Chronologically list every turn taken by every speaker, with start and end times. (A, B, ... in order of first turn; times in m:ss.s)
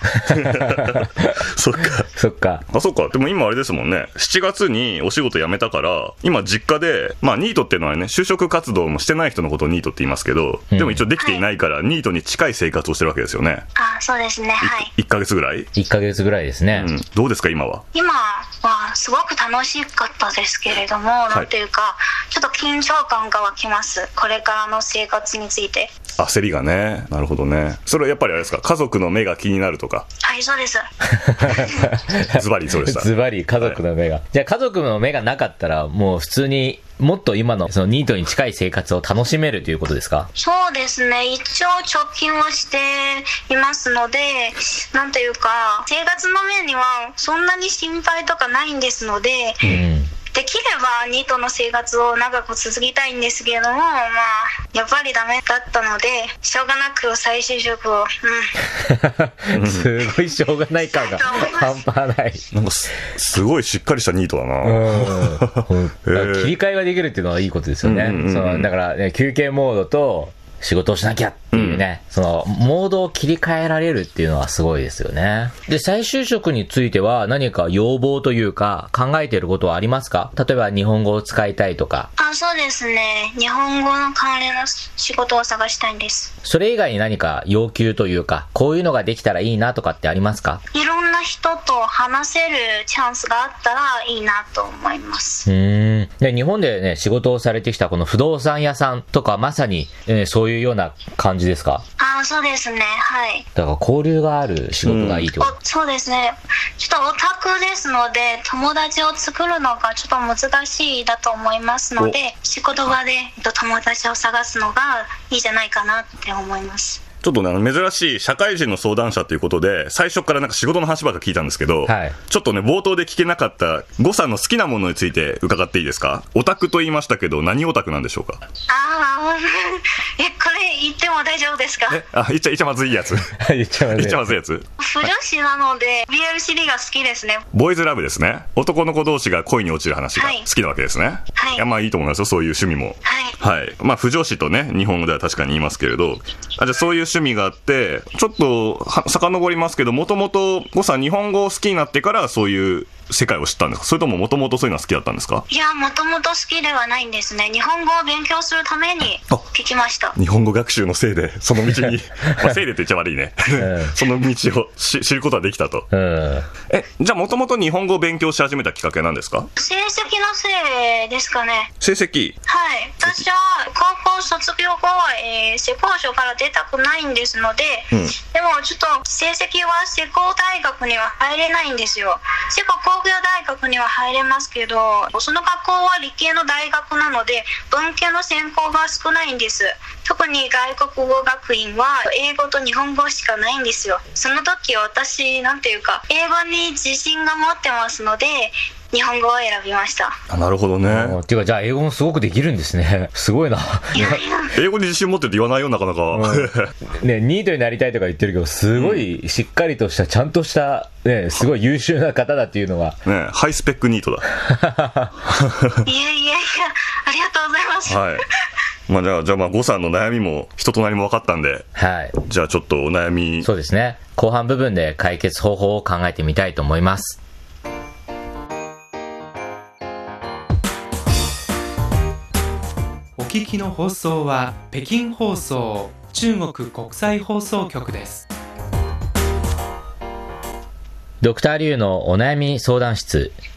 0:00.1-0:01.3 A
0:00.3-0:02.1 B
0:02.1-0:02.6 A
0:02.7-0:13.6 B
0:10.7-0:11.0 A
0:11.2-0:11.4 C
0:13.8-0:14.9 C
0:14.6-0:15.7 B
0:15.7-0:16.9 A
0:16.7-0:17.8 B
0:17.9-0:25.9 C
0:26.2-0:30.0 B
0:30.2-0:30.9 C
0:31.2-0:40.3 A
0:32.3-0:33.8 B
0:40.3-0:49.7 C
0:49.6-0:50.1 A
0:50.3-0:58.6 C
0:58.8-1:02.5 A
0:59.5-0:59.9 B
1:00.8-1:01.8 C
1:02.5-1:06.5 B
1:04.6-1:22.1 A
1:07.8-1:08.7 B
1:11.5-1:11.8 B
1:22.2-1:26.3 C
1:26.4-1:30.6 A
1:30.7-1:35.5 C
1:35.5-1:41.8 A
1:42.0-1:43.4 C
1:43.6-1:45.6 A
1:44.8-1:45.3 B
1:45.4-1:57.0 C
1:57.2-2:08.4 B
2:01.9-2:02.2 A
2:08.7-2:12.0 C
2:11.9-2:13.3 B
2:13.4-2:14.4 A
2:13.9-2:14.7 B
2:14.8-2:17.4 C
2:17.5-2:35.4 B
2:20.2-2:20.5 C
2:21.3-2:21.7 C
2:23.0-2:23.4 C
2:35.5-2:40.2 C
2:40.2-2:45.9 B
2:43.6-2:43.9 A
2:45.9-2:46.5 A
2:46.7-2:49.5 B
2:49.6-2:51.7 C
2:51.8-2:52.4 B
2:52.4-3:20.2 C
3:20.3-3:21.2 B
3:20.9-3:24.2 A
3:23.9-3:24.5 C
3:24.5-3:26.7 B
3:26.1-3:33.0 A
3:28.7-3:29.1 B
3:33.0-3:34.4 B
3:34.4-3:35.1 A
3:35.8-3:38.1 C
3:37.9-3:38.2 B
3:38.9-3:41.7 B
3:41.8-3:42.2 A
3:42.2-3:43.5 B
3:43.4-3:47.2 A
3:53.2-3:58.3 D
4:01.2-4:03.3 A